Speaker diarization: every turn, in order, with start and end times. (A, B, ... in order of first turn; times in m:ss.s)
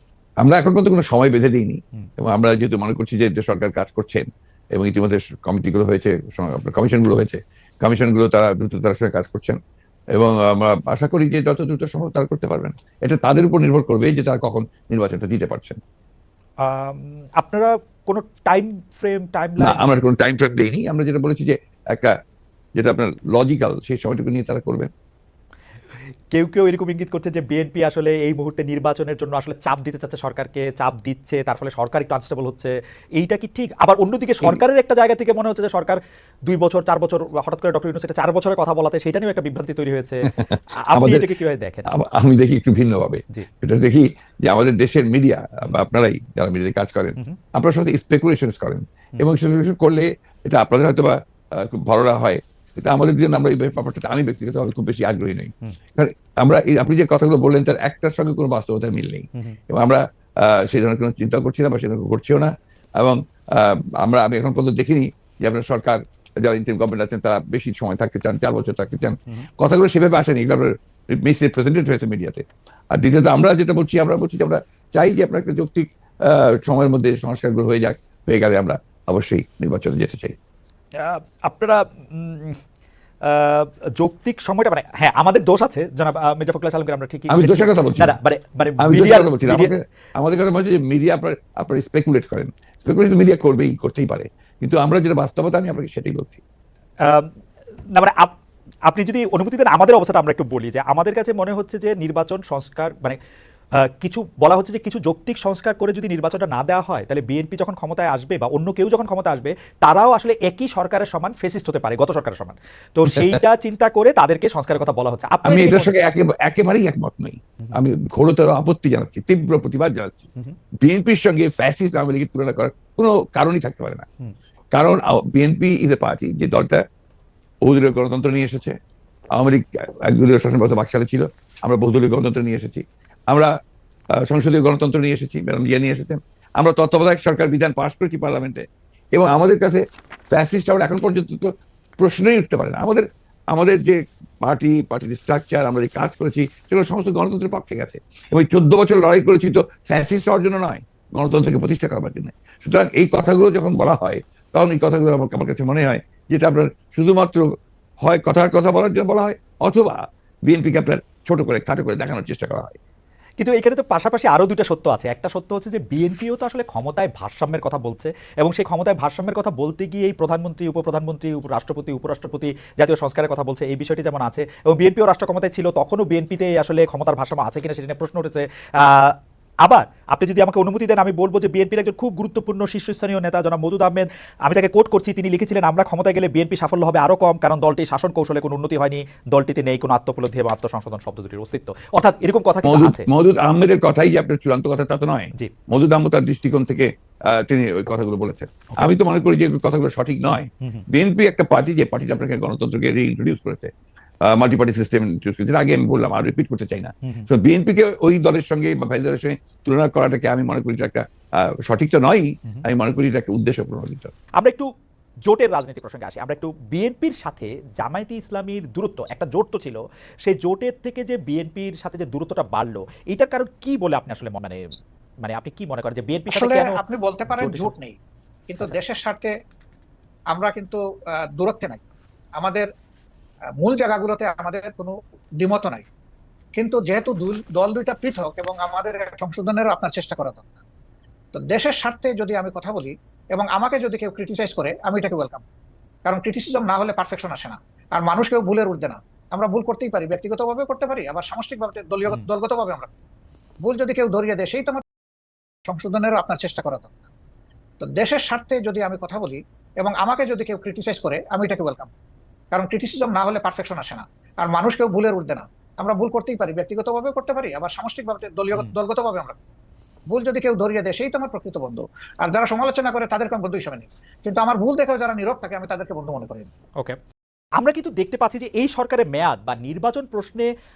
0:00.4-0:09.6 A
0:10.1-0:15.8 A
0:16.6-0:19.8 B
0:19.6-0:22.1 A
0:22.8-0:24.9 A
0:26.3-0:41.9 B
0:40.3-0:41.2 A
0:41.9-1:20.3 A
1:21.0-1:22.6 B
1:23.2-1:29.7 B
1:27.3-1:28.1 A
1:28.8-1:36.4 A
1:37.0-1:37.3 B
1:37.9-1:38.4 B
1:38.9-1:43.2 B
1:43.8-1:55.9 B
1:55.4-2:00.3 A
2:00.8-2:04.0 A
2:04.7-2:06.8 A
2:07.6-2:08.8 A
2:09.3-2:13.5 A
2:14.1-2:37.5 A
2:38.0-2:42.8 A
2:43.4-3:13.1 B
3:12.6-3:23.7 A
3:24.2-3:34.1 A
3:34.4-3:34.7 B
3:35.2-3:46.8 B
3:46.3-3:48.0 C
3:47.4-3:47.7 B
3:48.5-3:49.3 C
3:50.3-3:51.8 C
3:52.4-3:52.7 C
3:53.6-3:55.8 C
3:56.6-4:00.6 C
4:01.3-4:05.4 C
4:06.0-4:12.9 C
4:13.6-4:14.8 C
4:15.6-4:17.1 C
4:17.8-4:21.9 C
4:22.5-4:29.3 C
4:30.1-4:36.5 C
4:37.6-4:40.5 B